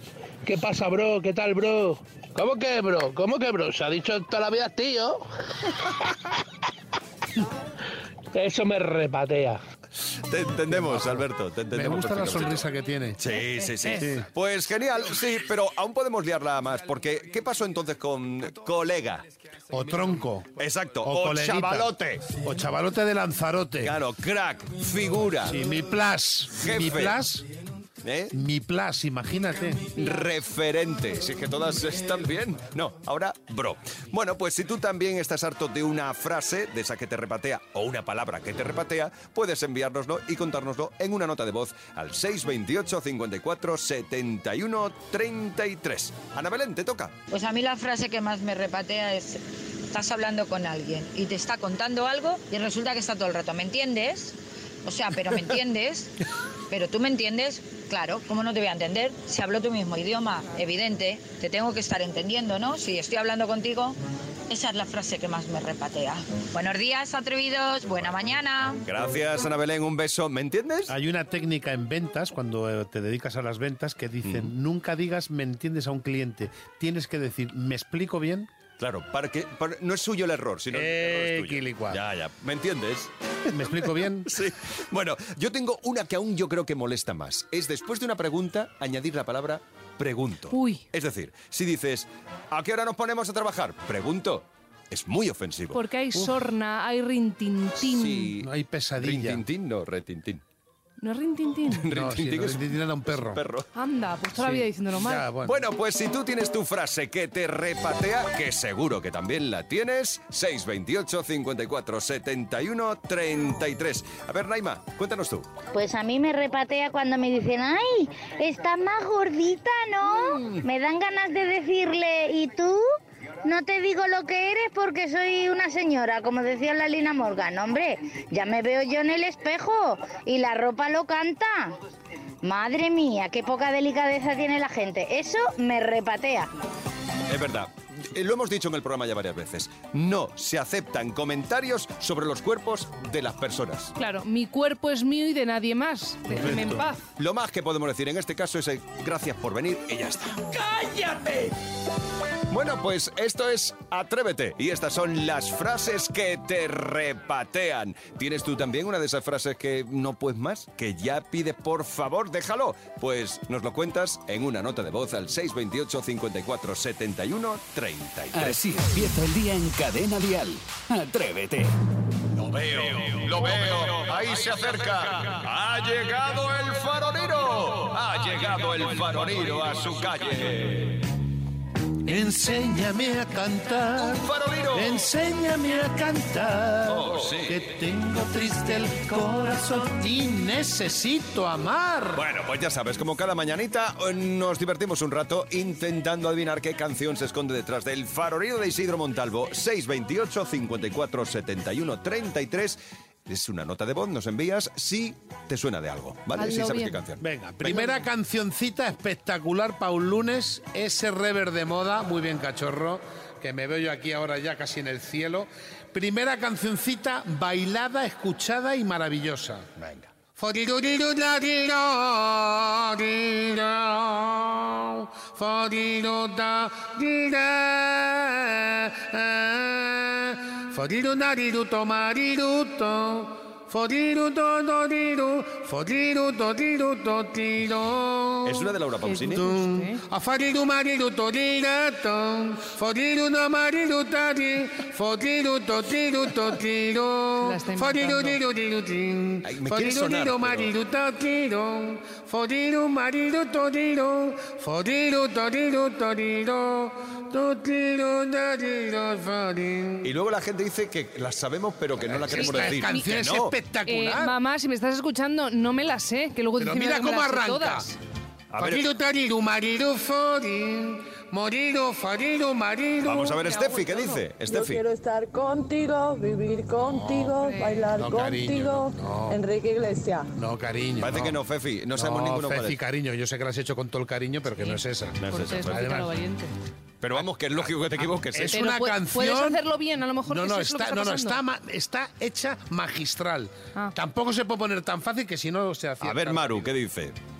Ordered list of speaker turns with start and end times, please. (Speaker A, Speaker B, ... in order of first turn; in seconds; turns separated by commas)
Speaker A: 0.4-5.2, Speaker A: 8.3-9.6, Speaker B: 10.3-12.6, Speaker C: 10.7-13.2, Speaker B: 13.2-19.2, Speaker C: 13.8-14.3, Speaker C: 19.7-23.9, Speaker B: 20.6-22.3, Speaker B: 23.8-25.6, Speaker C: 25.5-27.4, Speaker B: 26.6-27.2, Speaker B: 28.0-28.3, Speaker C: 28.3-30.0, Speaker B: 29.9-47.1, Speaker D: 47.3-56.1, Speaker D: 56.7-64.0, Speaker D: 64.5-68.8, Speaker B: 68.8-70.9, Speaker C: 70.9-78.5, Speaker B: 74.2-74.5, Speaker B: 78.8-83.1, Speaker C: 80.7-82.0, Speaker C: 83.5-84.3, Speaker B: 83.8-95.8, Speaker E: 90.5-90.8, Speaker E: 95.7-98.3, Speaker B: 97.8-98.5, Speaker C: 98.4-99.4, Speaker B: 99.0-100.4, Speaker E: 101.0-101.9, Speaker B: 101.7-103.7, Speaker C: 101.9-103.4, Speaker E: 103.7-105.3, Speaker C: 104.3-105.6, Speaker B: 105.4-115.5, Speaker F: 115.7-122.8, Speaker F: 123.4-131.7, Speaker F: 132.4-136.5, Speaker B: 137.3-143.9, Speaker E: 144.0-147.0, Speaker C: 146.3-146.8, Speaker B: 147.2-151.5, Speaker B: 152.5-168.6, Speaker G: 168.3-171.7, Speaker B: 172.4-181.1, Speaker C: 182.1-192.2, Speaker B: 184.0-185.0, Speaker B: 186.9-187.6, Speaker B: 192.1-208.0, Speaker E: 206.3-207.0, Speaker C: 207.2-219.7, Speaker B: 219.8-220.0, Speaker C: 220.3-238.7, Speaker B: 238.4-239.4, Speaker E: 239.1-240.0, Speaker C: 239.3-260.1, Speaker E: 247.4-248.4, Speaker B: 249.4-250.7, Speaker B: 260.0-263.6, Speaker C: 262.0-264.3, Speaker E: 262.3-263.2, Speaker E: 263.9-267.9, Speaker C: 266.6-267.9, Speaker B: 268.5-268.9, Speaker C: 268.5-273.5, Speaker B: 273.0-274.8, Speaker E: 273.4-274.2, Speaker H: 274.5-280.2, Speaker C: 276.8-277.4, Speaker E: 277.3-277.9, Speaker C: 277.9-279.4, Speaker C: 280.4-281.4, Speaker B: 281.0-282.8, Speaker C: 281.9-286.1, Speaker E: 284.6-286.5, Speaker B: 285.2-285.8, Speaker B: 287.0-288.6, Speaker C: 287.2-289.6, Speaker E: 288.5-291.4, Speaker C: 290.3-296.7, Speaker B: 296.0-297.1